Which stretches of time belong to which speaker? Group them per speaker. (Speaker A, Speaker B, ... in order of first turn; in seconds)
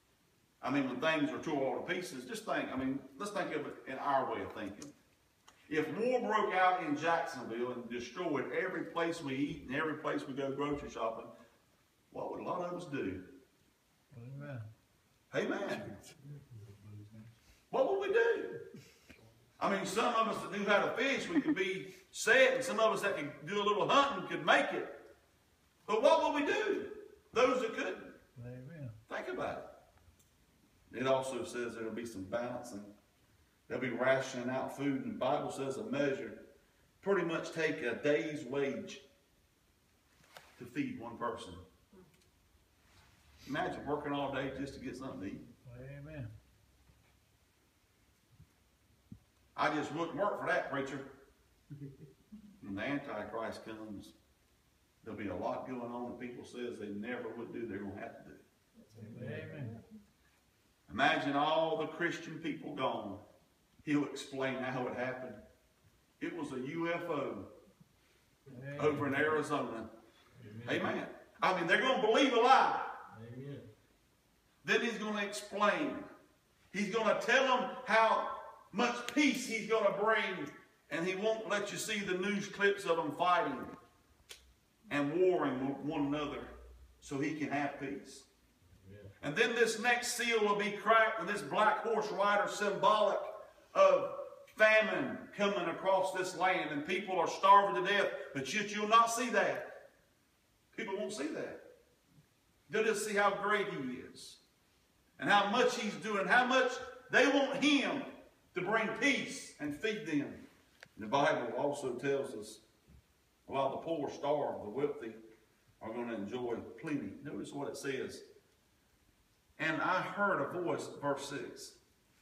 Speaker A: 0.6-4.9, 5.7-11.3, 12.1-13.2, 15.3-16.0, 17.7-18.6, 19.6-24.9, 25.9-28.1, 29.1-29.7, 30.9-32.9, 33.7-36.4, 37.0-39.0, 40.6-41.6, 43.5-45.5, 49.5-51.1, 52.6-54.1, 55.0-58.4, 60.9-63.2, 63.8-65.4, 66.2-67.5, 68.8-69.9, 70.7-73.0, 74.6-76.1, 76.7-83.8, 84.9-88.3, 89.2-99.8, 100.7-101.6, 102.7-104.4, 105.2-110.4, 111.0-112.6, 113.5-115.2, 115.8-118.2, 119.6-121.8
Speaker B: 14.1-14.7, 28.4-29.0, 45.7-46.3, 59.0-59.8, 68.5-69.2
Speaker C: 59.0-59.7, 70.4-70.9, 73.1-73.7, 88.8-89.1